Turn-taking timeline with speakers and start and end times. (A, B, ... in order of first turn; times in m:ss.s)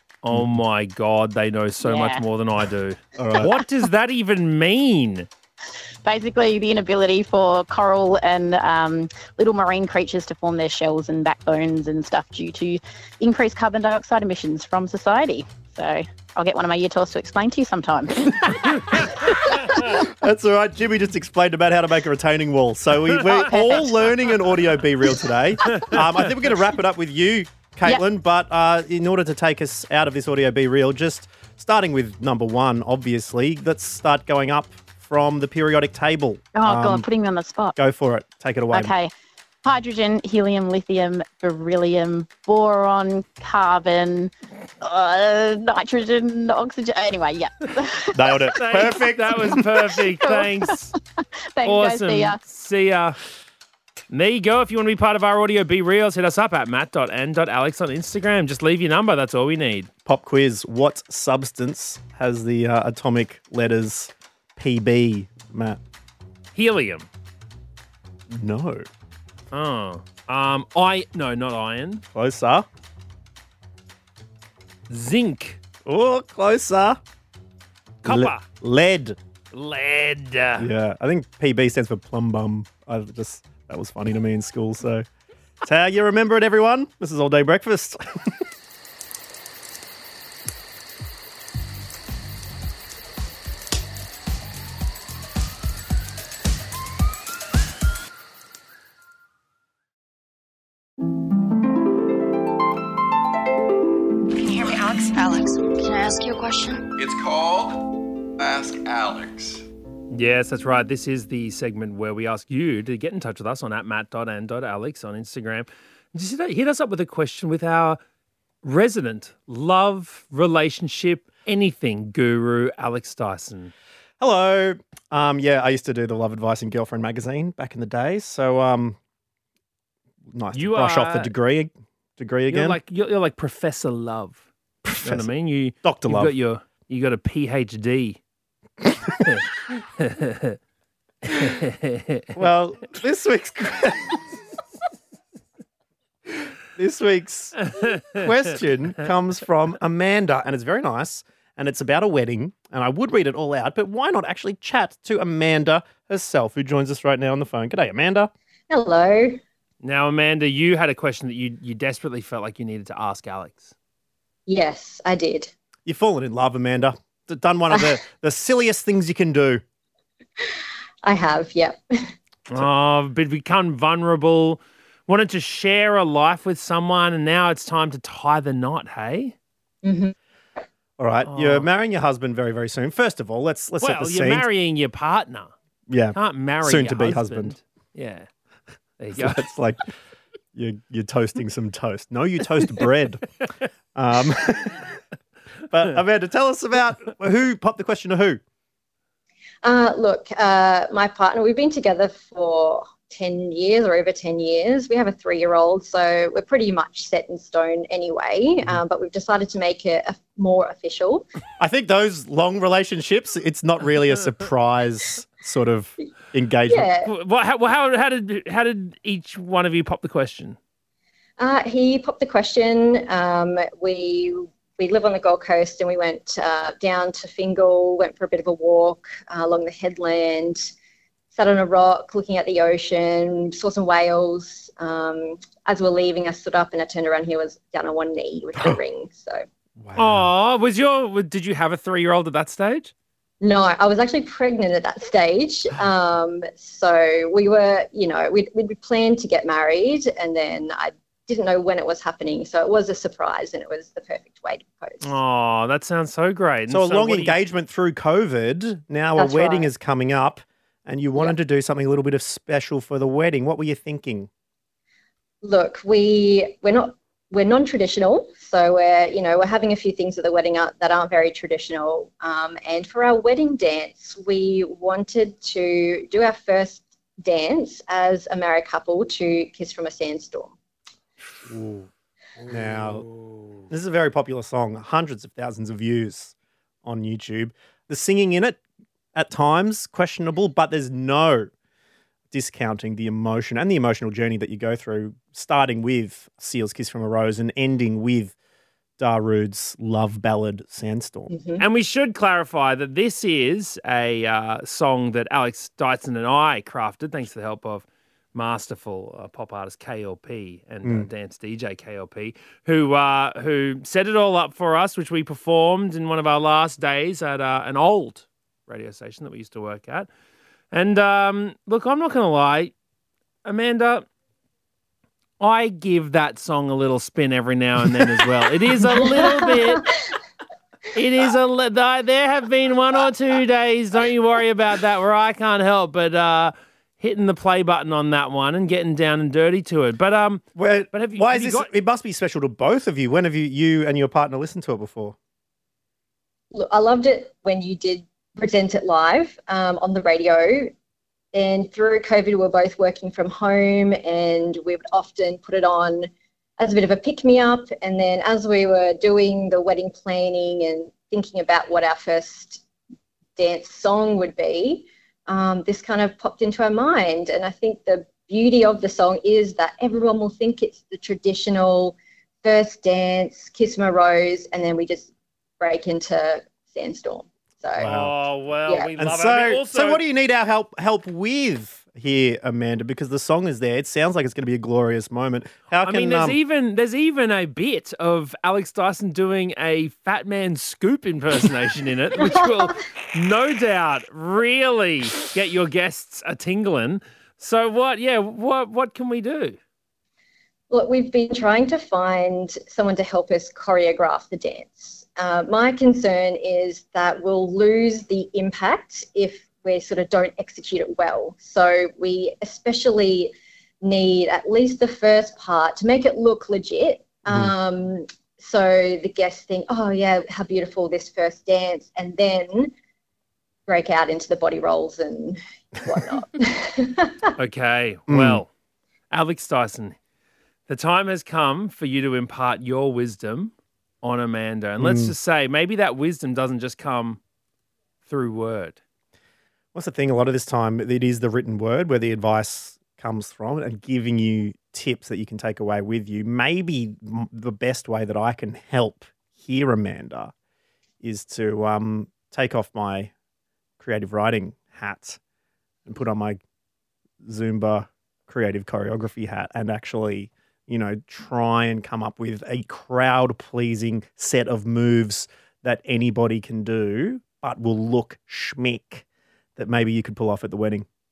0:00.2-0:05.3 A
0:01.8-0:02.2 B
0:03.2-0:03.6 C
0:06.0-0:19.9 B
0:19.9-0:37.1 C
0:23.5-0:23.8 B
0:25.7-0:26.0 A
0:36.6-0:37.8 B
0:37.8-0:38.9 C
0:38.7-0:39.1 B
0:39.6-0:48.4 B
0:48.1-0:49.7 C
0:48.6-0:50.9 A
0:50.2-0:50.7 B
0:51.6-0:52.4 B
0:51.6-0:53.2 A
0:54.1-0:59.9 A
1:00.0-1:05.8 C
1:06.5-1:07.1 A
1:08.3-1:08.9 C
1:09.5-1:12.0 A
1:12.1-1:12.7 C
1:14.9-1:15.6 A
1:15.9-1:17.0 C
1:18.0-1:18.4 A
1:18.0-1:19.2 C
1:19.5-1:20.7 A
1:20.6-1:25.1 C
1:25.6-1:28.4 C
1:44.4-1:46.9 D
1:47.0-1:49.7 E
1:50.1-1:58.0 A
1:58.6-2:03.7 A
2:04.2-2:09.0 C
2:10.3-2:12.8 C
2:10.5-2:11.3 A
2:12.5-2:14.4 A
2:14.8-2:16.3 C
2:15.0-2:18.2 A
2:18.8-2:19.4 C
2:19.3-2:20.6 A
2:21.2-2:22.4 A
2:22.4-2:24.3 C
2:26.4-2:38.3 C
2:27.8-2:28.2 A
2:38.7-2:39.4 F
2:39.8-2:43.7 A
2:44.5-2:45.5 F
2:45.9-2:49.6 C
2:47.7-2:48.0 F
2:51.0-2:51.8 F
2:52.5-2:59.4 A
2:59.8-3:00.2 F
3:01.0-3:04.5 C
3:01.2-3:01.7 A
3:03.8-3:05.5 A
3:05.9-3:07.6 C
3:06.1-3:08.3 A
3:09.0-3:09.4 A
3:09.1-3:09.8 C
3:10.5-3:13.3 C
3:13.9-3:15.0 C
3:15.7-3:18.4 C
3:19.6-3:31.2 F
3:31.6-3:36.9 C
3:36.7-3:37.1 F
3:37.0-3:40.6 A
3:41.4-3:50.7 F
3:51.3-3:59.4 F
3:59.8-4:00.3 C
4:00.0-4:02.9 A
4:03.4-4:15.1 F
4:15.0-4:17.4 A
4:16.7-4:24.3 C
4:19.2-4:19.7 F
4:25.4-4:40.6 F
4:41.5-4:41.8 C
4:42.5-4:43.1 C
4:43.7-4:48.6 C
4:49.2-4:51.5 C
4:52.3-4:58.3 C
4:59.0-5:01.3 C
5:01.3-5:01.6 F
5:01.6-5:20.1 A
5:20.7-5:22.7 A
5:23.4-5:24.1 A
5:25.4-5:29.8 A
5:28.8-5:29.9 F
5:30.9-5:41.7 A
5:40.6-5:45.2 C
5:46.5-5:50.7 F
5:51.3-6:02.6 F
6:03.4-6:17.9 F
6:17.8-6:18.2 C
6:17.8-6:20.0 A
6:19.0-6:26.4 C
6:25.8-6:39.6 A
6:32.2-6:32.8 F
6:40.7-7:02.7 F
6:57.3-6:57.5 C
7:03.7-7:07.3 F
7:07.4-7:08.5 A
7:08.1-7:08.4 C
7:09.1-7:10.0 A
7:10.7-7:17.2 A
7:14.8-7:15.1 C
7:18.0-7:18.8 A
7:19.7-7:30.3 C
7:31.0-7:33.1 C
7:33.8-7:35.2 C
7:35.9-7:36.4 C
7:37.2-7:49.0 C
7:49.6-7:50.9 C